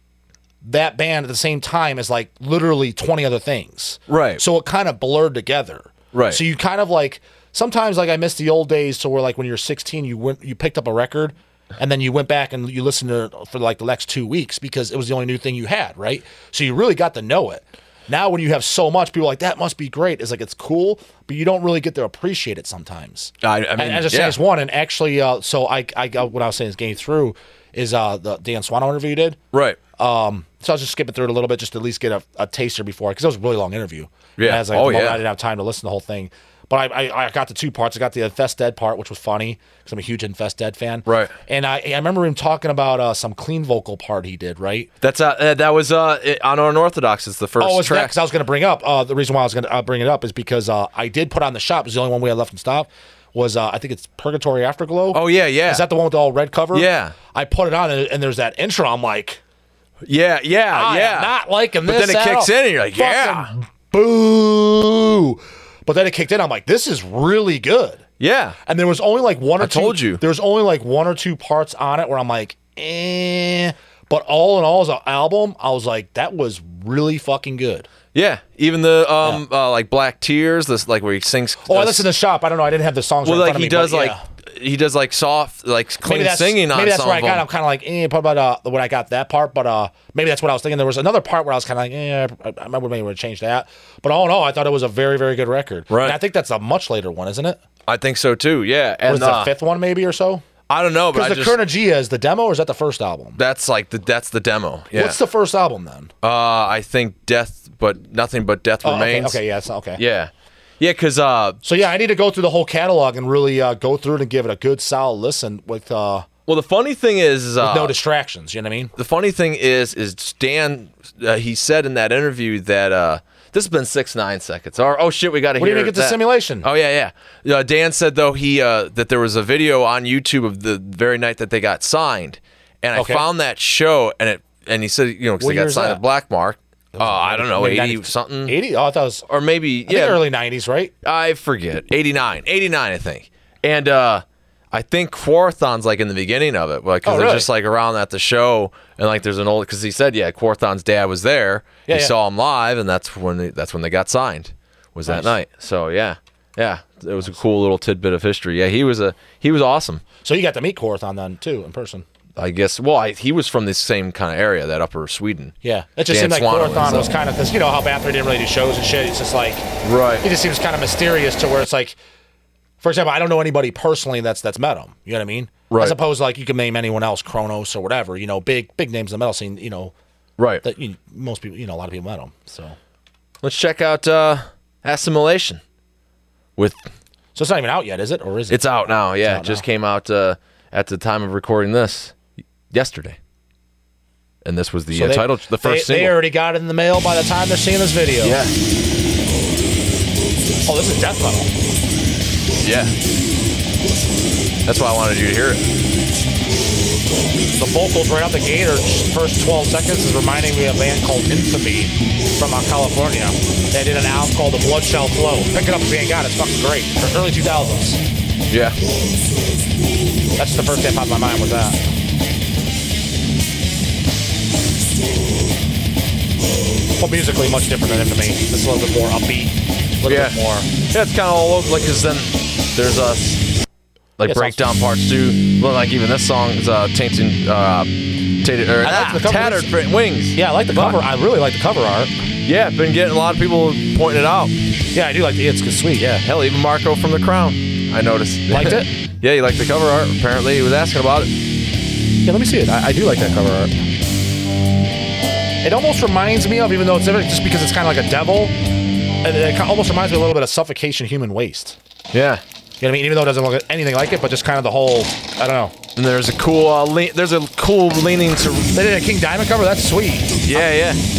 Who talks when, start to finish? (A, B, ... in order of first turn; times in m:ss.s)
0:00.6-0:29.4 A
0:04.1-0:04.4 B
0:06.1-0:06.4 B
0:23.4-0:24.4 B
0:29.5-0:29.8 B
0:30.0-0:44.9 A
0:34.4-0:35.2 B
0:41.0-0:41.3 B
0:45.0-0:48.1 B
0:47.6-0:59.4 A
0:55.1-0:55.9 B
0:56.7-0:57.2 B
1:00.0-1:01.3 B
1:00.7-1:08.0 A
1:01.8-1:03.5 B
1:08.2-1:08.6 B
1:08.6-1:17.9 A
1:09.6-1:10.2 B
1:18.1-1:22.1 B
1:21.6-1:24.2 A
1:23.2-1:27.4 B
1:26.0-1:37.6 A
1:35.9-1:36.2 B
1:37.9-1:39.5 B
1:39.1-1:40.4 A
1:40.7-1:41.6 B
1:41.1-1:43.4 A
1:43.4-1:45.2 B
1:44.9-1:46.1 A
1:46.2-1:49.4 B
1:48.8-1:50.0 A
1:50.0-1:51.6 B
1:51.6-1:56.3 A
1:56.5-1:57.9 B
1:57.6-1:58.9 A
1:59.0-2:18.6 B
2:05.6-2:06.7 A
2:12.9-2:13.2 A
2:15.4-2:16.0 A
2:16.9-2:19.2 A
2:19.3-2:20.2 B
2:19.9-2:20.9 A
2:21.0-2:40.0 B
2:27.0-2:27.5 A
2:31.9-2:32.1 A
2:35.1-2:35.3 A
2:40.2-2:42.0 A
2:42.4-2:45.5 B
2:45.6-2:49.7 A
2:46.1-2:47.1 B
2:49.8-2:50.2 B
2:50.2-2:52.0 A
2:52.8-2:59.9 A
2:55.7-2:56.0 B
3:00.4-3:00.6 B
3:00.6-3:02.8 A
3:03.4-3:05.6 B
3:06.6-3:06.8 B
3:07.3-3:09.6 A
3:08.5-3:12.2 B
3:12.7-3:13.2 B
3:14.4-3:16.2 B
3:14.9-3:18.4 A
3:18.2-3:18.5 B
3:20.6-3:21.5 A
3:22.6-3:22.9 B
3:24.6-3:25.6 B
3:27.5-3:38.0 A
3:38.5-3:38.8 B
3:40.4-3:41.8 A
3:47.0-3:50.7 A
3:50.1-3:50.4 B
3:50.9-3:53.4 B
3:54.2-4:01.0 B
3:54.2-3:54.7 A
3:58.8-3:59.7 A
4:00.3-4:02.1 A
4:02.4-4:04.6 B
4:04.9-4:06.2 A
4:06.2-4:11.3 B
4:08.5-4:08.9 A
4:12.2-4:13.8 A
4:15.6-4:18.6 A
4:19.2-4:21.8 A
4:22.1-4:22.4 B
4:22.8-4:25.8 A
4:26.0-4:28.7 B
4:28.7-4:30.7 A
4:30.4-4:31.0 B